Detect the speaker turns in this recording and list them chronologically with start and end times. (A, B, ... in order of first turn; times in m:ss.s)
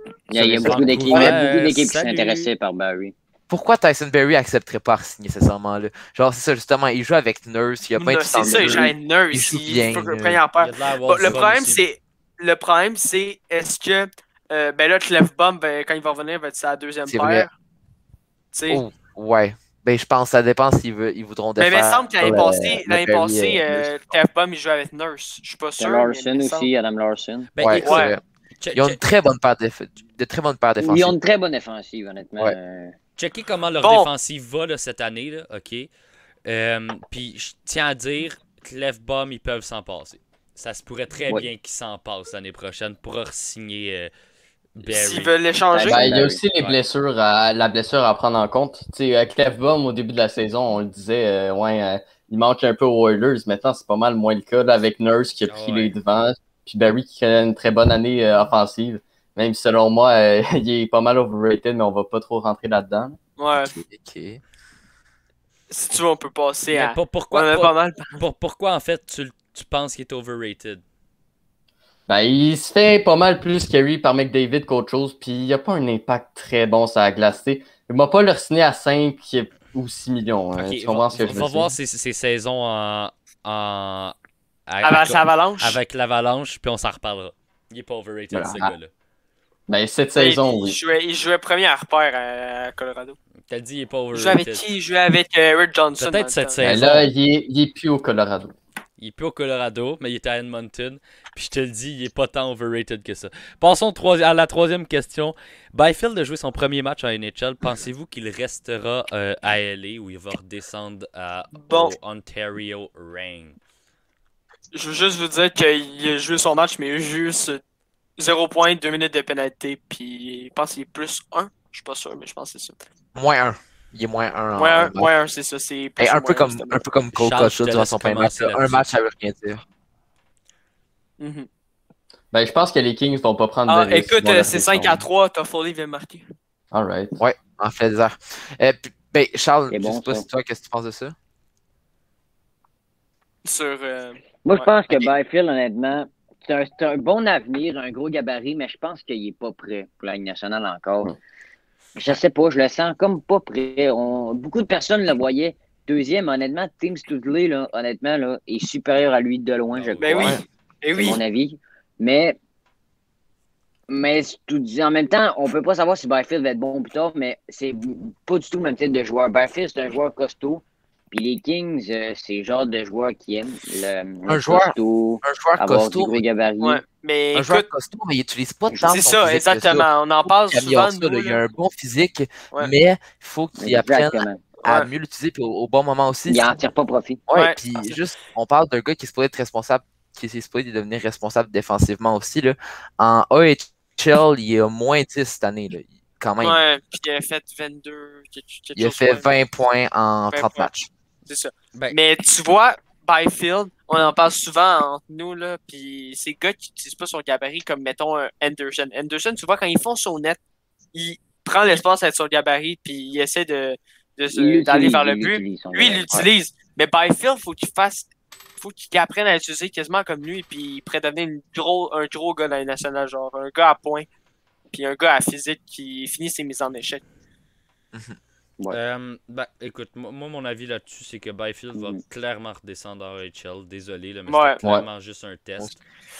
0:00.3-0:03.1 A
0:00.3-0:01.3 B
0:00.6-0:02.5 C
0:03.5-0:10.4 D
0:08.0-0:17.5 E
0:08.4-0:08.9 B
0:10.6-0:11.8 C
0:17.0-0:17.5 D
0:18.5-0:18.8 E
0:18.7-0:24.2 D
0:21.6-0:26.7 E
0:25.8-0:27.5 A
0:27.6-0:28.1 C
0:27.6-0:28.2 D
0:27.8-0:28.1 E
0:28.6-0:29.0 C
0:28.7-0:31.2 D
0:30.8-0:32.9 A
0:33.2-0:35.9 C
0:33.8-0:34.1 E
0:36.4-0:44.1 C
0:44.8-0:45.3 C
0:44.8-0:46.0 E
0:45.7-0:46.4 A
0:45.9-1:03.2 B
0:46.5-0:46.8 C
0:55.5-0:55.9 C
1:03.4-1:03.7 E
1:03.6-1:04.4 D
1:05.7-1:08.2 E
1:06.7-1:10.8 C
1:12.1-1:21.7 B
1:20.5-1:24.1 C
1:24.7-1:28.9 C
1:24.8-1:25.8 E
1:28.3-1:28.7 B
1:29.7-1:30.8 B
1:30.2-1:33.2 E
1:33.5-1:34.6 C
1:34.1-1:36.6 E
1:36.0-1:37.1 C
1:36.6-1:38.5 B
1:39.0-1:53.6 C
1:51.6-1:51.9 E
1:54.7-1:57.6 E
1:58.2-2:02.8 E
2:03.1-2:05.1 D
2:04.6-2:06.8 E
2:06.0-2:09.6 D
2:07.1-2:08.9 C
2:11.2-2:11.5 E
2:12.3-2:15.0 B
2:13.7-2:16.2 E
2:16.7-2:17.2 B
2:17.2-2:21.1 D
2:19.7-2:20.2 A
2:23.4-2:24.7 E
2:24.4-2:31.1 A
2:32.0-2:40.4 A
2:39.7-2:40.4 C
2:40.0-2:41.2 E
2:41.0-2:42.4 A
2:43.9-2:56.8 A
2:54.3-2:56.2 D
2:56.6-2:57.6 E
2:57.3-2:59.9 D
2:58.7-2:59.0 A
2:58.8-3:01.4 E
3:00.4-3:06.5 D
3:03.6-3:04.5 A
3:04.6-3:04.9 E
3:06.3-3:07.2 A
3:07.3-3:16.6 D
3:07.3-3:08.0 E
3:16.4-3:19.3 E
3:18.8-3:20.9 D
3:20.3-3:20.7 E
3:21.3-3:30.4 E
3:30.9-3:44.0 E
3:34.3-3:36.1 A
3:44.7-3:47.0 E
3:47.9-3:48.2 D
3:48.7-3:55.8 C
3:51.7-3:52.0 A
3:54.3-3:54.6 E